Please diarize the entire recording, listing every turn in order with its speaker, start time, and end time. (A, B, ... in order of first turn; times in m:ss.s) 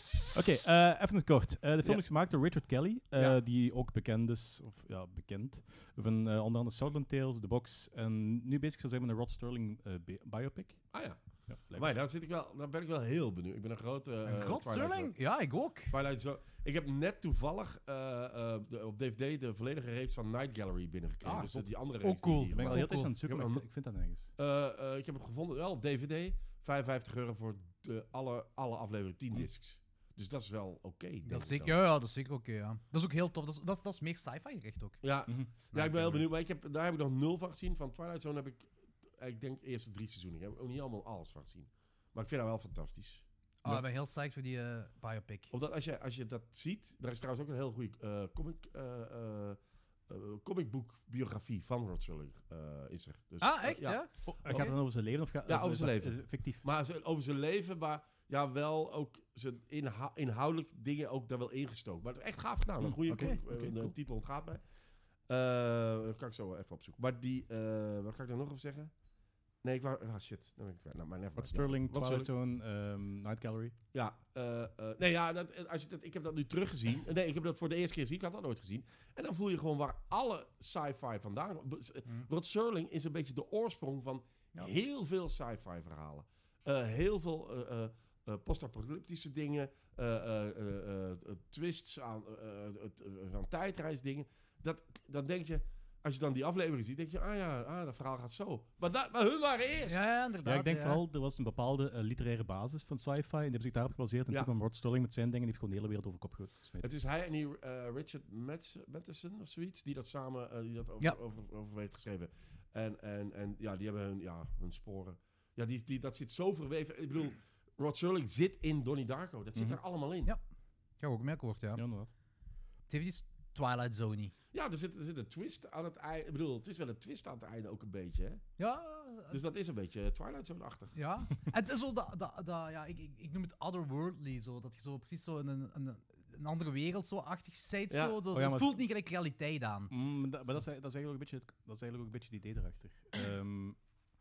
0:00.3-0:10.9 A
0:10.9-0:11.2 B
0:11.5-0:11.9 A
0:11.7-0:15.1 B
0:14.2-0:15.9 C
0:15.9-0:23.6 B
0:21.2-0:21.7 A
0:22.0-0:23.2 C
0:22.5-0:24.3 A
0:24.4-0:31.8 B
0:31.2-0:35.0 C
0:35.0-0:43.2 B
0:35.3-0:36.3 A
0:43.6-0:45.5 C
0:45.5-0:54.7 B
0:53.4-0:54.7 C
0:54.2-0:56.6 A
0:55.5-1:04.6 B
1:02.8-1:03.9 A
1:05.3-1:08.9 B
1:09.6-1:12.3 B
1:11.4-1:13.8 A
1:13.9-1:40.1 B
1:39.9-1:41.0 C
1:40.4-1:46.9 A
1:46.8-2:00.3 B
1:59.6-1:59.8 A
2:01.0-2:01.8 C
2:01.8-2:02.1 A
2:02.9-2:04.3 C
2:04.5-2:08.4 B
2:08.6-2:09.4 C
2:09.3-2:11.0 B
2:11.0-2:19.9 C
2:17.9-2:18.2 B
2:18.3-2:18.8 A
2:19.9-2:23.8 A